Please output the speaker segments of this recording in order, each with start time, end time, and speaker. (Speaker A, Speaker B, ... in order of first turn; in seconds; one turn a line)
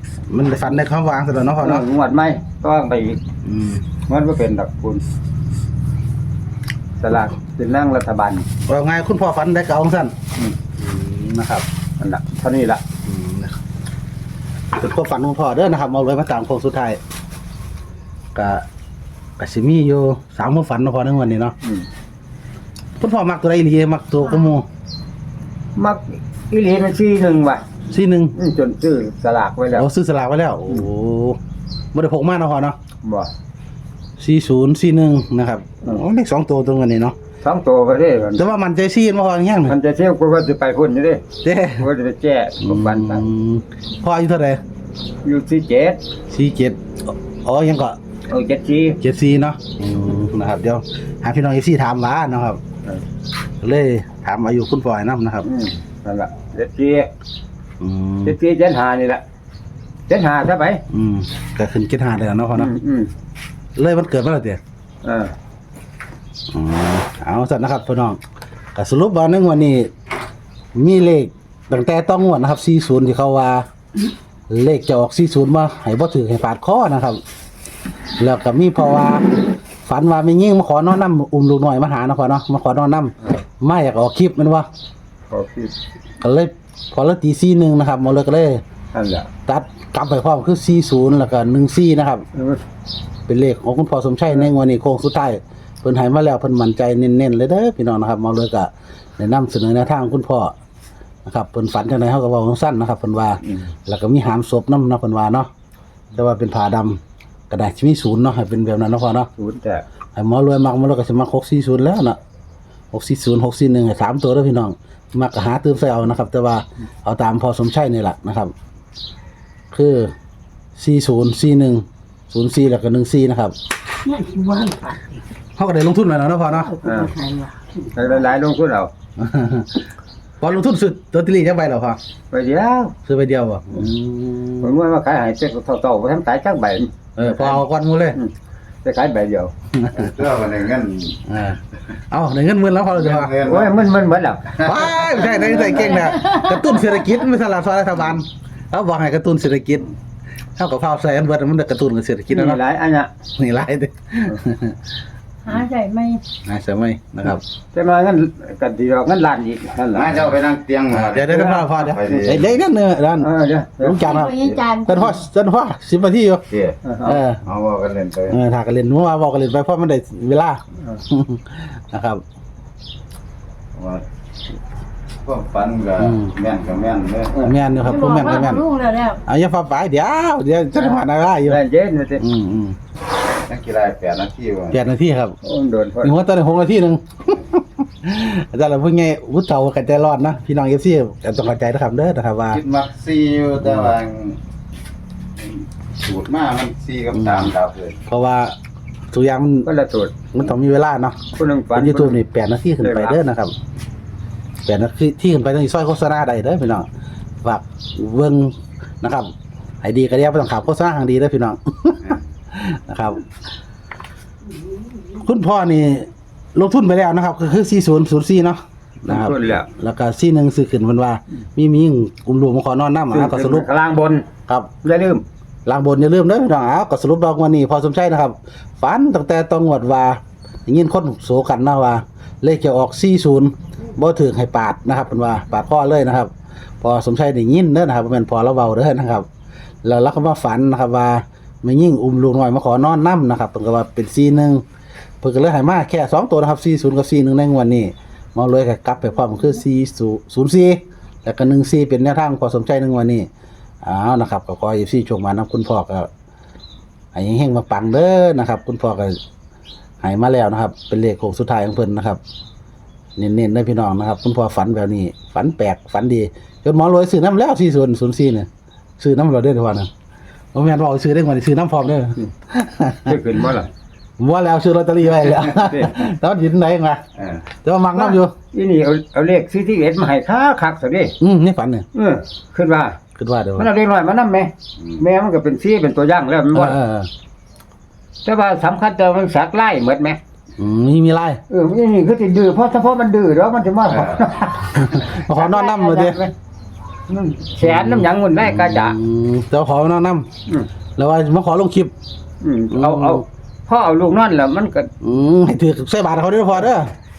Speaker A: 0.3-1.9
Speaker B: 1.6-3.2
Speaker A: 3.4-3.8
Speaker B: 4.1-5.0
Speaker B: 7.0-8.4
Speaker A: 8.7-10.1
Speaker A: 10.8-11.6
Speaker B: 12.0-12.8
Speaker A: 13.0-13.5
Speaker A: 14.7-17.0
Speaker A: 18.3-18.6
Speaker A: 19.4-21.5
Speaker A: 23.0-24.6
Speaker B: 25.8-27.6
Speaker A: 27.9-28.3
Speaker B: 28.4-29.9
Speaker A: 29.7-31.4
Speaker A: 31.9-32.8
Speaker B: 33.0-33.3
Speaker A: 34.2-37.1
Speaker B: 37.4-38.4
Speaker A: 38.4-39.8
Speaker B: 39.7-41.2
Speaker A: 41.4-41.9
Speaker B: 41.8-43.2
Speaker A: 42.6-44.6
Speaker B: 45.2-46.0
Speaker A: 46.3-48.0
Speaker B: 48.3-49.0
Speaker A: 49.0-52.6
Speaker A: 53.6-55.5
Speaker B: 55.4-57.1
Speaker A: 57.8-58.4
Speaker B: 58.2-59.2
Speaker B: 60.1-60.8
Speaker A: 60.9-62.7
Speaker B: 62.5-63.1
Speaker A: 63.8-64.6
Speaker B: 65.0-65.3
Speaker A: 66.5-68.2
Speaker A: 68.7-69.9
Speaker A: 70.7-73.6
Speaker A: 74.5-77.2
Speaker A: 78.2-84.7
Speaker B: 85.3-85.7
Speaker A: 86.2-88.6
Speaker B: 88.9-89.3
Speaker A: 89.5-92.2
Speaker B: 92.3-92.6
Speaker A: 93.3-100.5
Speaker A: 101.2-105.5
Speaker A: 106.1-109.3
Speaker B: 109.4-109.8
Speaker A: 110.2-112.2
Speaker A: 112.9-118.5
Speaker A: 119.7-120.1
Speaker A: 120.8-123.5
Speaker C: 124.0-125.2
Speaker A: 125.6-126.8
Speaker C: 126.5-127.5
Speaker B: 126.8-127.2
Speaker B: 127.8-128.9
Speaker A: 129.2-129.8
Speaker A: 130.4-132.0
Speaker B: 132.3-132.9
Speaker A: 133.1-134.7
Speaker B: 134.6-137.6
Speaker A: 137.2-138.2
Speaker B: 138.8-139.5
Speaker A: 139.8-140.1
Speaker D: 139.9-141.2
Speaker A: 141.3-143.4
Speaker D: 143.0-143.7
Speaker B: 143.4-145.7
Speaker A: 144.6-149.9
Speaker A: 150.6-152.6
Speaker B: 152.3-153.1
Speaker A: 153.4-154.8
Speaker C: 155.4-156.2
Speaker A: 156.4-157.4
Speaker B: 157.7-160.4
Speaker D: 159.9-162.5
Speaker A: 160.9-163.3
Speaker B: 161.2-162.0
Speaker B: 163.2-164.6
Speaker A: 163.8-166.5
Speaker C: 164.0-165.1
Speaker B: 166.8-167.2
Speaker A: 167.0-167.4
Speaker D: 167.4-168.4
Speaker A: 168.3-172.2
Speaker D: 173.8-174.0
Speaker D: 175.2-177.4
Speaker A: 176.0-176.4
Speaker A: 177.4-181.6
Speaker C: 177.8-179.2
Speaker B: 180.8-182.2
Speaker A: 182.2-182.8
Speaker D: 183.4-184.8
Speaker A: 184.7-185.4
Speaker B: 185.4-186.1
Speaker A: 186.0-192.6
Speaker D: 192.5-194.4
Speaker A: 193.6-193.9
Speaker D: 195.4-198.0
Speaker A: 197.1-197.5
Speaker A: 198.1-198.6
Speaker A: 199.1-199.7
Speaker B: 199.6-200.1
Speaker A: 200.3-201.2
Speaker B: 201.3-202.2
Speaker A: 201.7-203.5
Speaker B: 202.8-203.2
Speaker A: 204.7-206.9
Speaker A: 207.4-209.3
Speaker A: 209.8-213.2
Speaker A: 215.1-223.7
Speaker B: 219.1-219.7
Speaker B: 223.1-224.3
Speaker B: 224.8-225.2
Speaker A: 225.7-239.2
Speaker A: 239.8-244.6
Speaker A: 245.2-253.3
Speaker A: 253.8-256.1
Speaker A: 257.1-259.2
Speaker A: 260.0-262.2
Speaker A: 263.2-268.5
Speaker A: 269.0-269.9
Speaker A: 270.5-273.2
Speaker B: 273.0-273.7
Speaker A: 274.2-277.0
Speaker B: 275.6-276.0
Speaker A: 277.6-278.3
Speaker B: 278.0-281.1
Speaker A: 281.2-281.9
Speaker B: 281.9-283.0
Speaker A: 283.2-283.7
Speaker B: 283.6-286.8
Speaker A: 286.5-287.1
Speaker B: 288.2-290.2
Speaker A: 290.6-291.4
Speaker B: 291.5-296.3
Speaker A: 294.7-296.2
Speaker B: 297.1-299.0
Speaker A: 297.6-300.3
Speaker A: 301.0-301.9
Speaker B: 302.4-304.9
Speaker A: 302.7-303.2
Speaker A: 305.0-306.9